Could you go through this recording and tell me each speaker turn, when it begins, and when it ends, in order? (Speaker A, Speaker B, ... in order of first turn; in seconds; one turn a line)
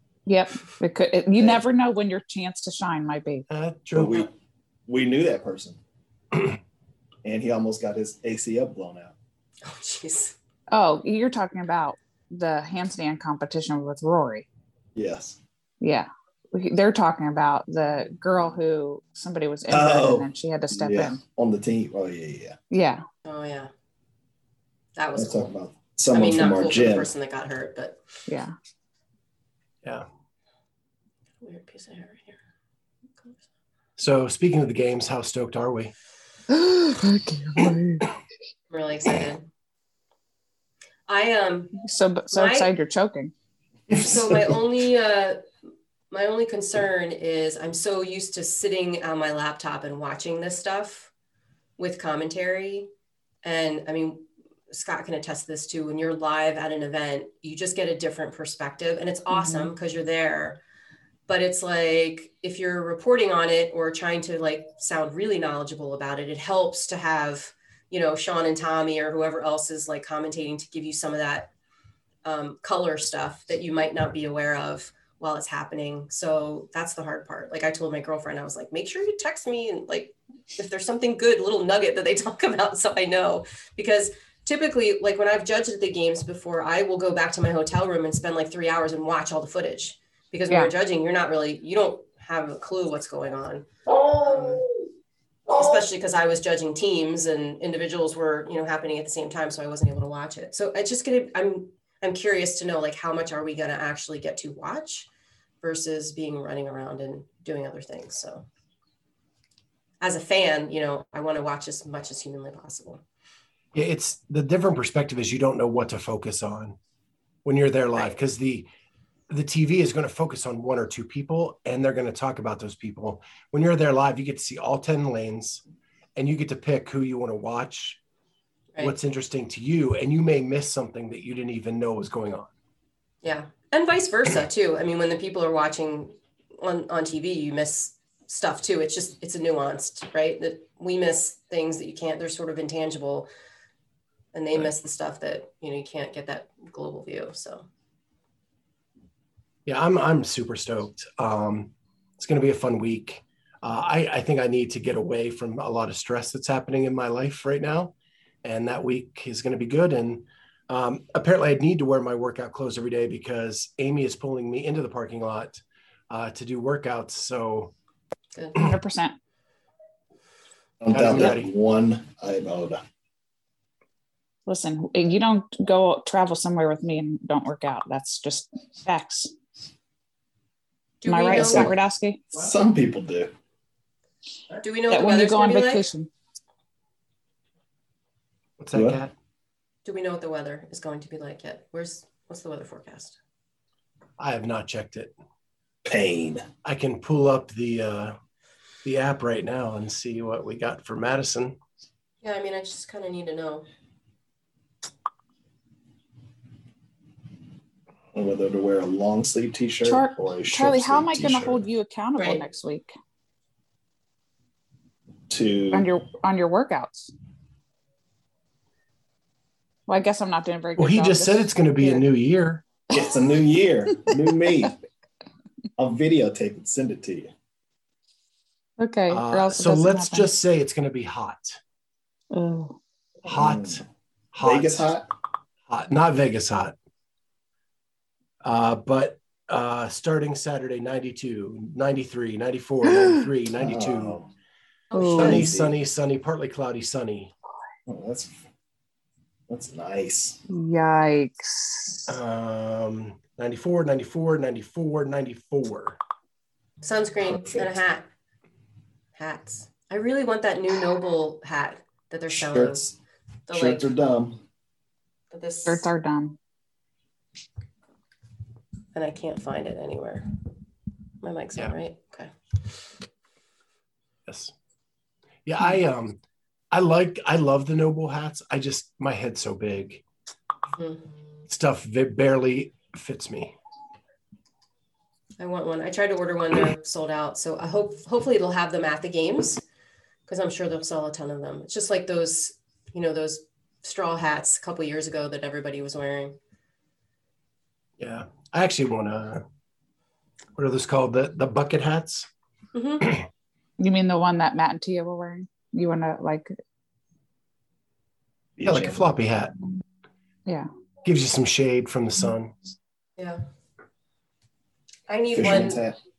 Speaker A: 0.3-3.5
Speaker B: 1.4-1.6
Speaker C: 3.5-4.3
Speaker B: 3.9-4.3
Speaker B: 4.9-5.8
Speaker B: 7.2-9.1
Speaker D: 9.6-10.4
Speaker A: 10.7-14.4
Speaker B: 14.9-15.4
Speaker A: 15.8-21.2
Speaker B: 19.7-22.6
Speaker A: 22.7-23.0
Speaker D: 23.2-23.7
Speaker D: 24.9-25.5
Speaker B: 25.1-27.1
Speaker D: 26.1-28.0
Speaker A: 28.3-28.5
Speaker D: 31.4-32.4
Speaker C: 34.0-35.9
Speaker A: 36.5-38.1
Speaker D: 38.7-39.5
Speaker D: 41.1-41.8
Speaker A: 41.8-43.3
Speaker D: 42.3-42.7
Speaker B: 43.9-44.6
Speaker D: 43.9-45.5
Speaker D: 46.1-51.1
Speaker D: 51.8-52.9
Speaker D: 53.4-60.6
Speaker A: 59.3-59.7
Speaker D: 61.3-71.5
Speaker D: 72.2-94.7
Speaker D: 95.5-105.1
Speaker D: 105.6-108.5
Speaker D: 110.0-113.0
Speaker C: 113.7-116.8
Speaker C: 117.4-118.7
Speaker C: 119.3-125.6
Speaker C: 126.2-128.0
Speaker C: 128.8-132.5
Speaker D: 133.2-143.3
Speaker D: 144.3-147.7
Speaker C: 149.7-167.7
Speaker A: 168.6-169.2
Speaker B: 170.8-172.8
Speaker C: 170.9-171.5
Speaker A: 174.5-179.3
Speaker D: 181.0-181.7
Speaker A: 181.1-182.2
Speaker B: 181.3-181.7
Speaker B: 182.3-183.3
Speaker D: 184.6-185.9
Speaker A: 184.9-186.1
Speaker C: 188.6-189.1
Speaker B: 188.7-189.0
Speaker D: 189.8-193.2
Speaker C: 194.2-195.1
Speaker B: 195.8-196.4
Speaker C: 196.6-198.2
Speaker C: 198.8-201.6
Speaker D: 202.2-203.7
Speaker B: 208.1-211.6
Speaker A: 209.8-212.9
Speaker D: 212.2-212.4
Speaker B: 215.3-215.9
Speaker A: 215.7-217.1
Speaker A: 219.9-222.1
Speaker C: 220.8-222.7
Speaker B: 222.9-224.8
Speaker B: 225.8-227.3
Speaker A: 228.8-230.3
Speaker C: 229.1-231.6
Speaker A: 232.3-232.8
Speaker C: 233.2-233.8
Speaker B: 233.3-233.8
Speaker C: 234.3-234.9
Speaker B: 234.4-235.1
Speaker C: 235.7-236.8
Speaker C: 238.4-244.2
Speaker A: 242.9-243.2
Speaker B: 243.6-244.3
Speaker D: 244.9-245.4
Speaker A: 244.9-245.4
Speaker C: 245.1-247.3
Speaker B: 245.2-245.7
Speaker B: 247.9-248.4
Speaker B: 249.5-250.4
Speaker A: 250.5-252.1
Speaker C: 252.1-256.0
Speaker D: 256.8-258.1
Speaker B: 257.4-257.6
Speaker D: 259.1-262.9
Speaker B: 262.3-262.9
Speaker D: 263.5-263.9
Speaker B: 263.5-264.4
Speaker D: 265.3-265.8
Speaker A: 265.6-266.4
Speaker D: 268.9-270.3
Speaker D: 271.2-272.3
Speaker C: 274.3-274.5
Speaker C: 275.4-276.2
Speaker C: 276.7-280.0
Speaker D: 280.8-281.1
Speaker C: 281.5-283.6
Speaker D: 285.4-289.6
Speaker D: 290.3-296.4
Speaker C: 298.0-299.4
Speaker C: 300.6-302.3
Speaker D: 302.7-303.1
Speaker A: 303.8-306.5
Speaker B: 308.6-309.0
Speaker C: 308.6-309.5
Speaker C: 311.0-312.6
Speaker D: 313.2-313.4
Speaker D: 315.1-315.8
Speaker B: 315.3-316.0